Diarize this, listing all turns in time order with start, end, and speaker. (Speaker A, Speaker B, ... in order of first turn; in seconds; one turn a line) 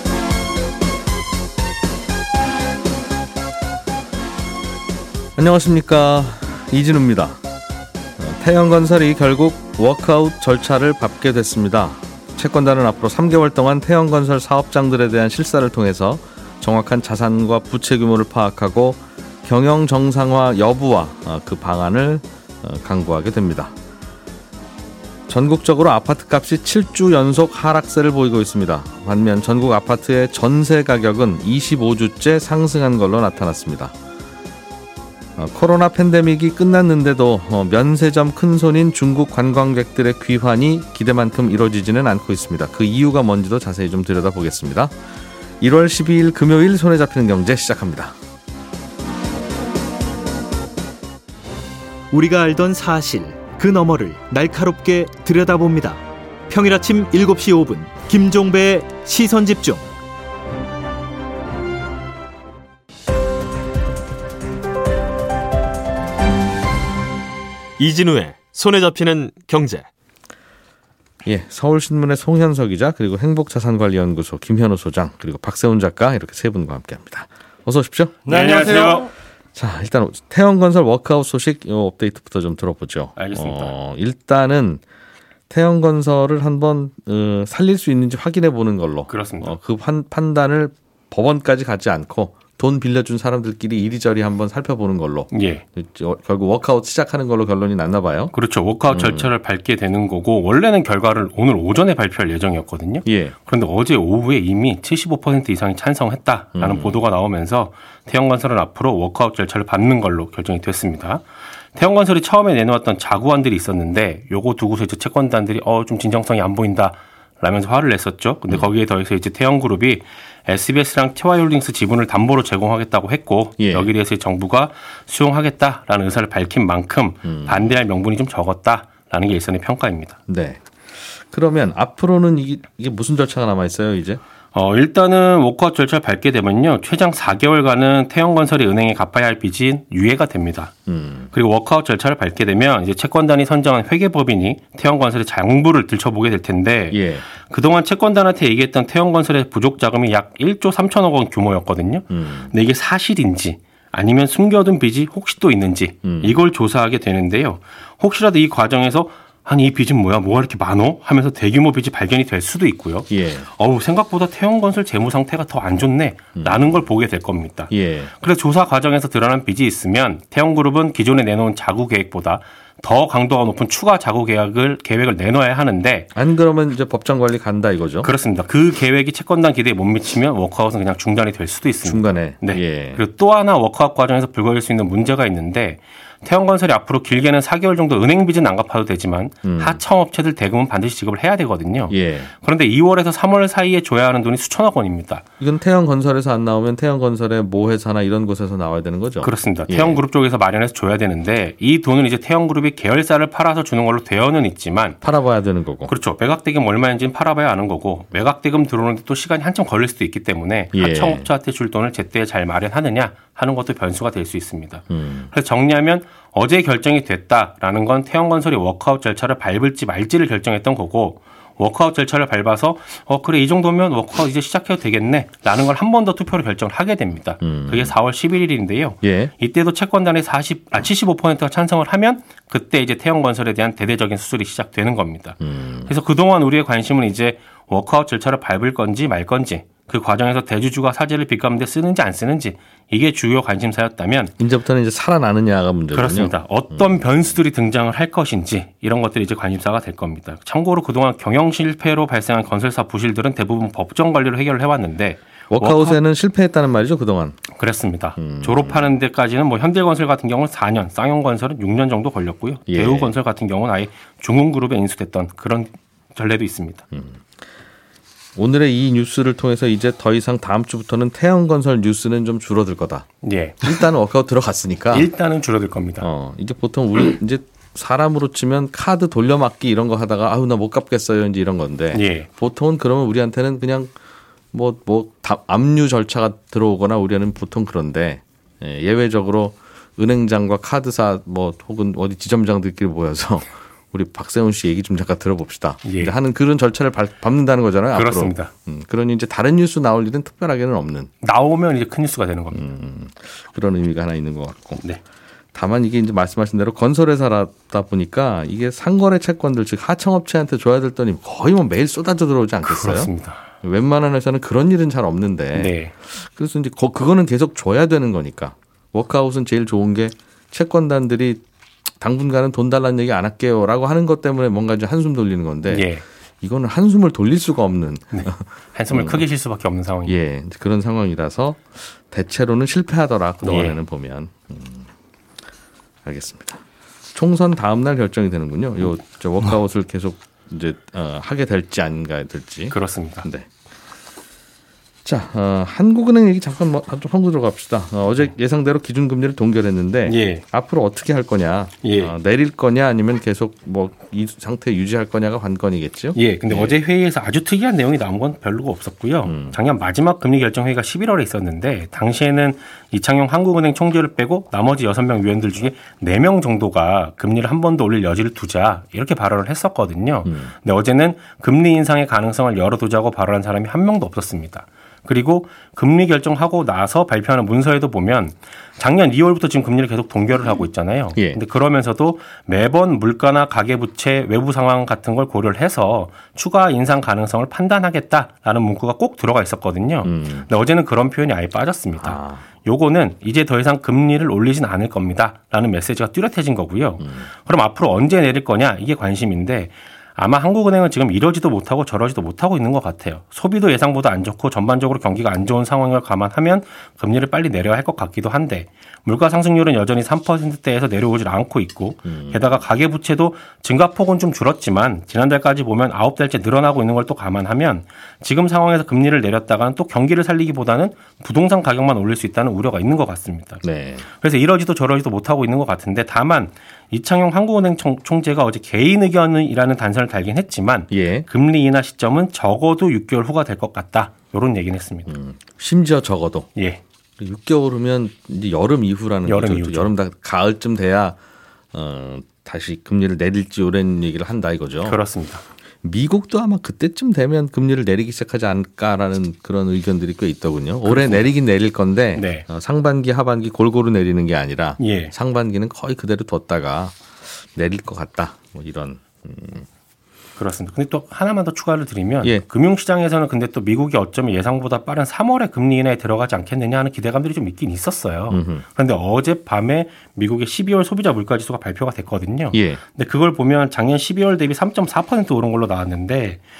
Speaker A: 5.4-7.4
Speaker A: 8.2-23.7
Speaker A: 25.3-33.9
Speaker A: 35.4-44.9
Speaker A: 45.6-48.2
Speaker B: 52.1-59.9
Speaker C: 67.8-69.9
Speaker A: 71.2-79.0
Speaker B: 78.3-79.1
Speaker D: 78.3-79.1
Speaker A: 79.5-84.8
Speaker D: 83.2-83.7
Speaker A: 85.5-98.3
Speaker D: 89.1-89.6
Speaker D: 95.3-95.6
Speaker D: 98.3-111.2
Speaker A: 98.9-99.3
Speaker A: 103.0-103.3
Speaker A: 106.5-107.0
Speaker D: 111.8-130.2
Speaker A: 123.6-123.9
Speaker A: 127.2-127.7
Speaker A: 130.3-134.2
Speaker D: 134.5-140.7
Speaker A: 140.9-141.3
Speaker D: 141.3-176.1
Speaker A: 146.9-147.3
Speaker A: 152.1-152.5
Speaker A: 156.0-156.3
Speaker A: 163.1-163.5
Speaker A: 166.4-166.8
Speaker A: 167.7-168.1
Speaker A: 176.2-178.1
Speaker D: 178.0-195.2
Speaker A: 181.8-183.0
Speaker A: 189.4-189.8
Speaker A: 191.9-192.3
Speaker A: 195.4-200.0
Speaker D: 199.2-205.0
Speaker A: 205.0-205.9
Speaker D: 205.9-244.3
Speaker A: 210.7-211.3
Speaker A: 214.9-215.3
Speaker A: 227.4-227.9
Speaker A: 229.0-229.3
Speaker A: 235.4-235.9
Speaker A: 244.4-247.1
Speaker D: 245.9-256.0
Speaker A: 255.5-257.4
Speaker D: 257.6-266.9
Speaker A: 258.2-258.9
Speaker A: 262.7-263.1
Speaker A: 266.9-267.2
Speaker A: 268.4-273.1
Speaker D: 273.2-273.8
Speaker A: 273.6-275.1
Speaker D: 274.9-276.1
Speaker A: 276.0-283.9
Speaker D: 281.9-282.3
Speaker A: 284.5-301.1
Speaker D: 295.8-296.1
Speaker D: 297.9-298.5
Speaker D: 301.2-302.6
Speaker A: 302.5-304.8
Speaker A: 305.5-313.1
Speaker D: 312.6-313.5
Speaker A: 313.6-321.4
Speaker D: 315.5-315.9
Speaker A: 322.0-325.9
Speaker D: 325.7-326.0
Speaker A: 326.4-329.2
Speaker D: 328.1-330.1
Speaker A: 330.1-334.9
Speaker D: 333.4-333.8
Speaker A: 336.1-336.6
Speaker A: 337.1-343.5
Speaker D: 342.7-343.3
Speaker A: 345.1-356.8
Speaker D: 350.1-350.4
Speaker D: 351.8-352.1
Speaker D: 356.1-423.6
Speaker A: 359.2-359.6
Speaker A: 370.2-370.5
Speaker A: 381.2-381.4
Speaker A: 390.0-390.5
Speaker A: 392.0-392.5
Speaker A: 397.0-397.3
Speaker A: 412.1-412.4
Speaker A: 423.6-424.1
Speaker D: 424.2-435.1
Speaker A: 430.9-431.3
Speaker A: 435.1-436.5
Speaker D: 436.6-436.8
Speaker A: 437.2-441.2
Speaker D: 439.3-439.9
Speaker A: 441.7-445.0
Speaker D: 444.8-445.4
Speaker A: 445.8-459.7
Speaker D: 450.9-451.3
Speaker D: 452.2-452.4
Speaker D: 454.8-455.1
Speaker D: 460.4-476.4
Speaker A: 468.3-468.6
Speaker A: 472.5-472.8